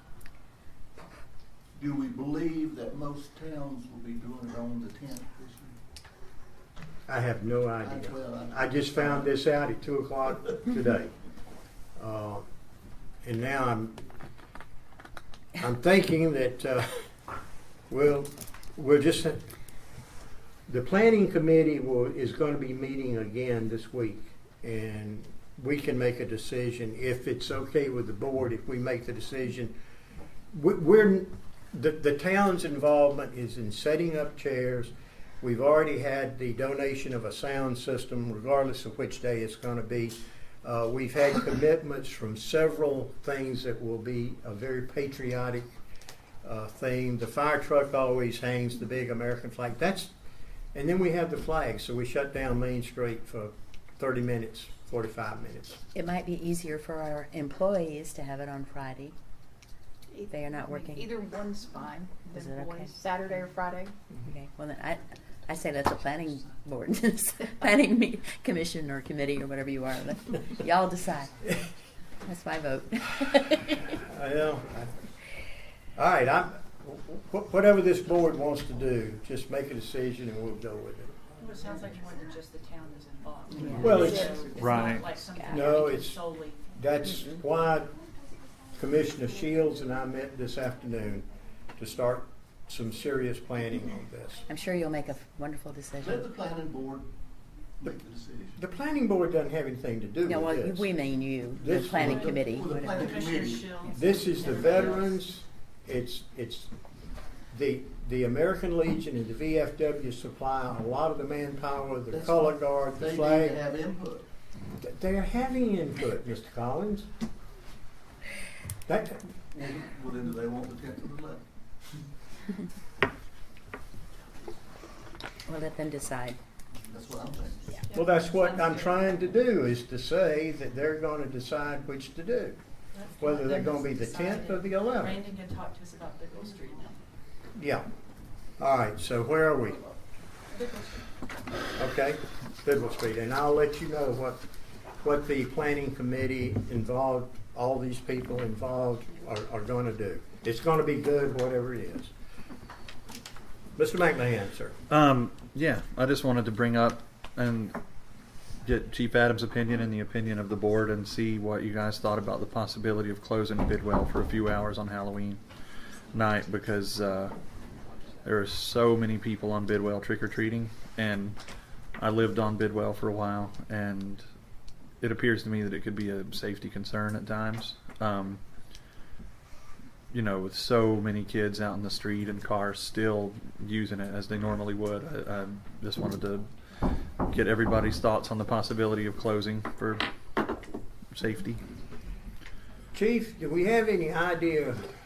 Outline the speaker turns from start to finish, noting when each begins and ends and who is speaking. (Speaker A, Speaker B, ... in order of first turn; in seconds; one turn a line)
Speaker A: 1.8-5.8
Speaker B: 7.1-11.1
Speaker A: 7.8-9.3
Speaker B: 12.0-12.5
Speaker B: 13.2-14.0
Speaker B: 15.6-17.1
Speaker B: 17.9-19.4
Speaker B: 20.7-29.7
Speaker B: 30.5-45.7
Speaker B: 46.4-50.1
Speaker B: 50.7-55.8
Speaker C: 55.9-59.1
Speaker D: 60.1-63.9
Speaker C: 60.3-61.2
Speaker C: 62.3-62.9
Speaker C: 64.2-71.4
Speaker C: 72.2-74.0
Speaker B: 73.9-74.9
Speaker B: 76.0-81.1
Speaker E: 81.4-86.7
Speaker A: 83.6-84.5
Speaker C: 83.6-84.0
Speaker B: 83.8-84.4
Speaker D: 83.9-84.4
Speaker F: 84.5-85.2
Speaker C: 85.4-85.8
Speaker B: 85.5-86.2
Speaker B: 86.7-87.9
Speaker B: 88.7-94.5
Speaker C: 94.5-96.3
Speaker A: 96.0-97.1
Speaker A: 97.8-98.6
Speaker B: 98.6-100.9
Speaker C: 100.2-103.2
Speaker B: 101.6-102.4
Speaker A: 101.6-103.8
Speaker E: 102.8-105.2
Speaker B: 103.9-106.7
Speaker B: 107.5-113.6
Speaker A: 112.1-114.3
Speaker B: 114.8-117.1
Speaker B: 118.9-119.2
Speaker A: 119.5-121.4
Speaker C: 125.5-126.4
Speaker A: 126.8-127.8
Speaker E: 127.9-129.2
Speaker B: 127.9-132.6
Speaker E: 132.9-137.0
Speaker B: 133.2-135.3
Speaker B: 137.6-137.9
Speaker B: 138.6-139.8
Speaker E: 140.5-141.1
Speaker B: 141.8-144.4
Speaker B: 145.0-152.1
Speaker B: 153.8-154.8
Speaker F: 154.9-157.8
Speaker F: 158.6-165.4
Speaker F: 166.1-167.4
Speaker F: 168.2-171.4
Speaker F: 172.0-174.2
Speaker F: 175.0-178.4
Speaker F: 180.1-190.0
Speaker F: 191.1-191.6
Speaker B: 192.9-194.9